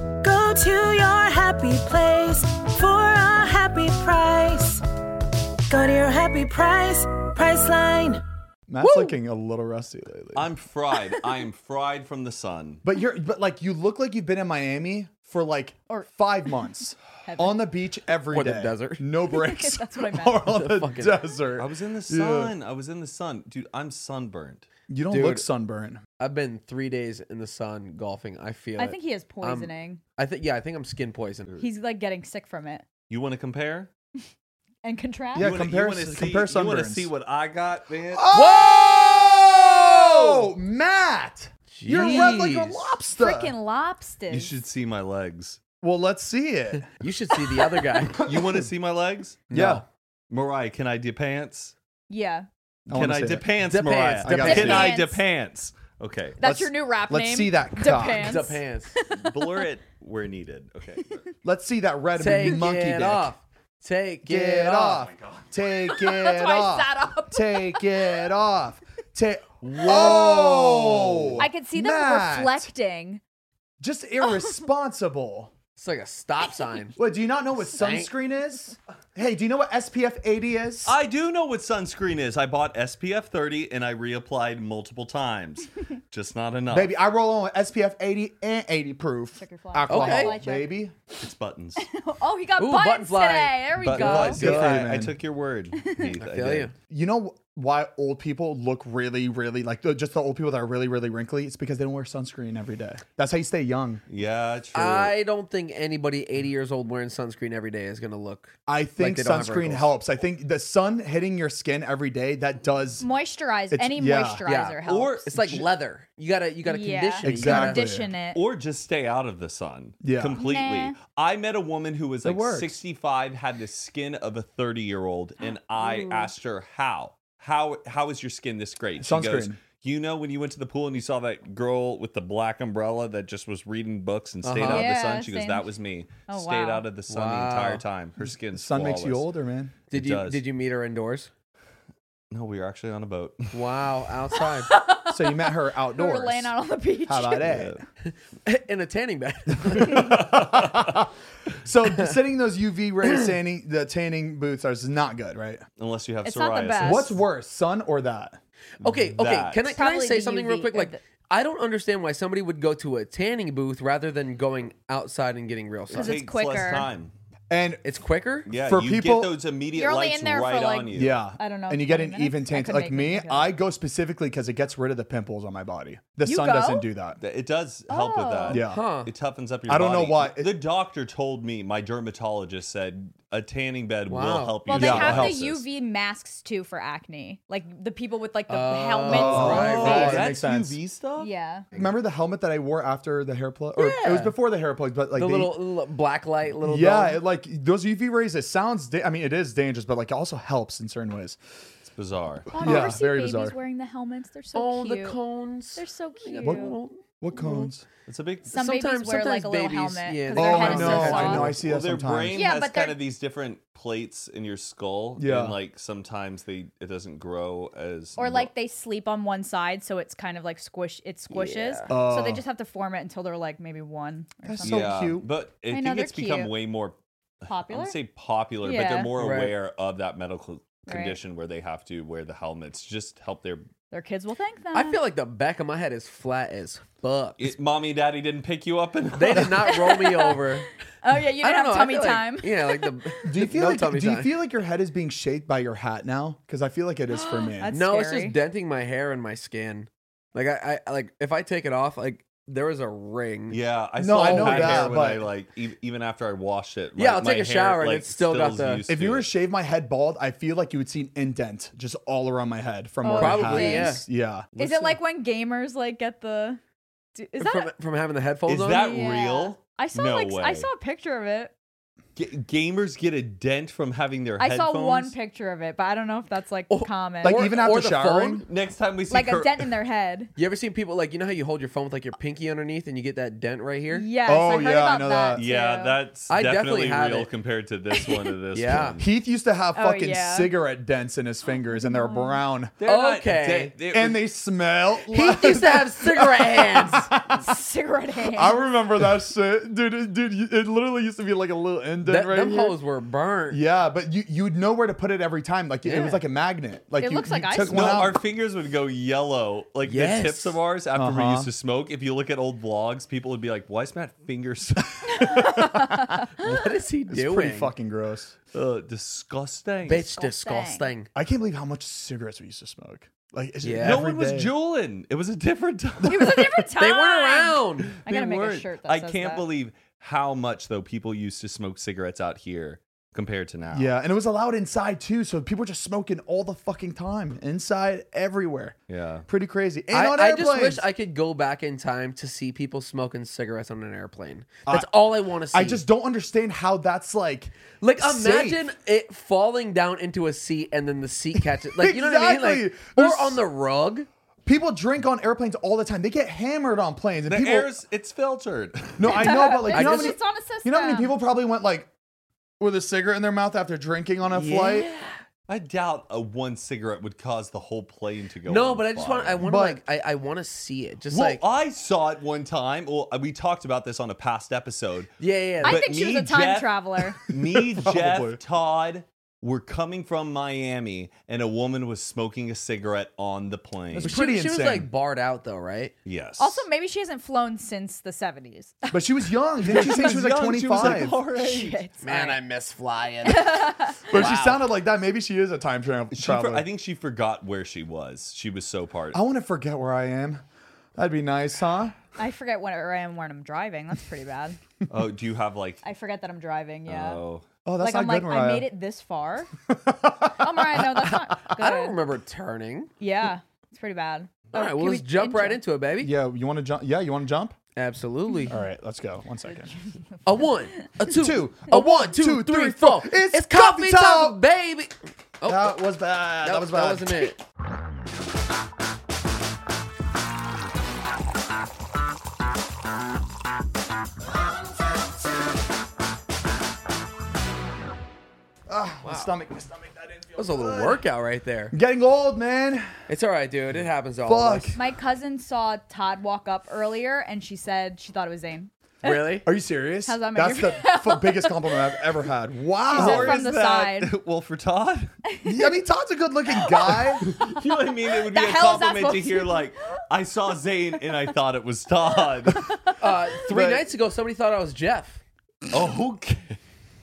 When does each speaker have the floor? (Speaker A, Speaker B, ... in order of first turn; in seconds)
Speaker A: 0.2-4.8, 5.7-8.2
Speaker B: 8.7-10.5, 12.8-22.5, 24.9-26.0, 35.4-37.1, 38.1-43.5, 45.8-46.9, 48.1-48.7, 49.5-49.8, 52.9-53.6, 54.2-55.0, 56.4-58.5, 61.4-63.3, 64.2-72.7, 73.8-75.5, 77.0-81.0, 86.7-90.9, 94.0-95.2, 96.9-104.0, 108.7-113.1, 113.7-114.4, 117.2-118.1, 120.0-120.4, 122.2-122.8, 129.0-129.6, 138.2-139.8, 145.1-146.5, 147.1-147.8, 149.7-151.1, 151.6-155.6, 156.8-158.4, 167.5-167.8, 168.6-169.4, 170.9-177.2, 178.5-178.8, 179.7-180.6, 184.7-185.3, 189.1-190.8, 191.7-195.6, 196.6-201.4, 202.5-203.6, 206.4-207.8, 210.3-212.4, 215.2-215.6, 221.9-222.4, 224.4-225.3, 243.2-247.7, 254.0-255.3, 258.9-264.5, 277.2-278.4, 284.2-285.4, 289.0-292.8, 293.9-297.5, 298.3-302.8, 303.5-308.2, 310.9-311.5, 315.2-316.1, 317.1-318.4, 321.1-324.5, 333.7-338.8, 339.3-340.9, 345.5-348.6, 351.8-353.4, 354.5-357.7, 359.0-361.9, 362.6-364.9, 369.4-369.8, 377.3-378.4, 383.9-384.9, 388.9-391.2, 394.1-396.7, 399.1-400.4, 401.0-401.9, 407.6-408.7, 409.7-411.0, 416.0-417.6, 418.5-419.7, 421.0-424.4, 425.4-427.3, 438.7-441.0, 441.7-442.9, 444.2-444.8, 449.4-453.4, 455.4-457.2, 463.5-463.9
Speaker C: 10.3-12.8, 21.6-24.7, 33.1-33.9, 35.4-38.3, 44.3-45.6, 48.2-49.5, 50.3-51.7, 52.9-56.4, 59.1-61.2, 65.1-65.4, 80.8-86.9, 91.2-91.9, 93.8-96.7, 104.1-105.2, 114.9-115.6, 118.3-139.3, 139.9-140.4, 142.3-143.9, 147.4-147.8, 155.8-157.2, 158.8-159.8, 165.9-167.1, 168.5-171.2, 177.2-185.7, 189.3-191.3, 201.8-202.5, 208.1-208.5, 211.5-218.5, 224.6-233.7, 237.4-239.8, 253.5-259.3, 268.5-270.7, 272.2-275.1, 278.5-279.7, 285.4-289.1, 292.8-294.2, 307.7-315.2, 318.5-320.1, 323.8-326.7, 328.0-333.9, 338.9-339.3, 357.3-359.3, 365.5-369.4, 371.1-375.1, 375.6-384.1, 386.1-386.6, 389.7-391.8, 396.1-399.2, 404.9-405.8, 406.9-407.4, 452.9-455.1, 457.2-462.8, 465.7-466.6
Speaker D: 17.3-17.6, 19.3-20.4, 28.8-30.0, 31.6-32.9, 34.8-35.5, 42.0-42.4, 43.1-44.5, 52.1-52.5, 54.5-55.2, 56.4-59.3, 65.9-68.2, 71.4-73.2, 89.4-90.8, 91.8-94.8, 113.0-115.3, 116.7-118.4, 120.4-121.0, 125.4-126.3, 134.7-135.7, 136.3-136.9, 144.7-147.4, 156.2-157.1, 159.8-161.0, 165.9-166.9, 169.8-173.5, 176.2-176.9, 177.9-178.6, 184.7-190.2, 191.2-191.7, 202.5-205.2, 205.8-206.8, 207.4-207.7, 208.5-211.5, 212.3-213.0, 218.2-224.9, 225.7-226.5, 227.5-227.9, 228.6-229.1, 230.9-231.2, 233.9-235.0, 239.7-240.4, 241.0-243.3, 247.6-248.4, 263.0-264.1, 264.6-266.6, 267.1-267.7, 268.8-271.5, 274.4-277.5, 279.1-280.3, 283.9-286.0, 289.8-290.6, 291.8-292.4, 297.4-298.6, 307.0-308.0, 315.1-316.3, 320.2-320.9, 326.0-329.5, 359.1-361.1, 375.6-377.2, 386.4-389.2, 391.3-392.4, 393.2-394.2, 402.2-404.6, 405.8-407.2, 407.8-409.5, 410.4-412.0, 413.0-415.6, 444.8-449.4, 450.1-452.0, 452.9-454.1, 455.3-455.7, 456.6-457.6, 458.3-459.6, 462.5-462.9
Speaker E: 18.3-19.0, 20.4-21.2, 25.1-25.5, 26.2-31.5, 38.3-38.8, 39.9-40.4, 41.7-42.9, 47.0-48.3, 49.5-49.8, 53.7-54.9, 58.1-58.9, 62.2-65.1, 69.6-71.4, 75.8-77.0, 77.6-78.1, 89.9-90.4, 92.6-94.3, 96.2-96.7, 104.7-109.9, 114.5-117.8, 134.4-134.9, 137.1-137.8, 139.9-141.3, 143.5-144.7, 148.1-150.4, 158.8-166.1, 167.8-168.5, 178.7-179.1, 184.1-184.6, 188.5-190.3, 193.8-194.3, 195.1-197.2, 204.6-207.0, 208.5-211.6, 221.3-221.9, 229.1-229.5, 234.7-237.5, 239.2-240.7, 241.4-244.3, 247.7-253.6, 254.2-254.9, 257.0-258.9, 263.1-265.0, 267.4-269.1, 276.7-278.4, 280.4-284.1, 286.3-287.3, 288.5-289.0, 292.8-293.8, 295.1-297.1, 302.1-303.6, 305.8-306.2, 309.9-310.6, 316.4-317.7, 319.9-321.1, 323.6-324.0, 326.8-328.0, 339.9-345.8, 347.8-354.1, 359.7-360.2, 364.3-365.2, 368.5-371.4, 375.2-375.8, 384.0-385.9, 392.0-394.7, 411.6-412.9, 414.5-416.1, 417.8-418.6, 420.2-425.8, 426.4-427.4, 439.0-439.3, 440.4-441.8, 443.1-444.8, 449.0-449.5, 463.0-465.2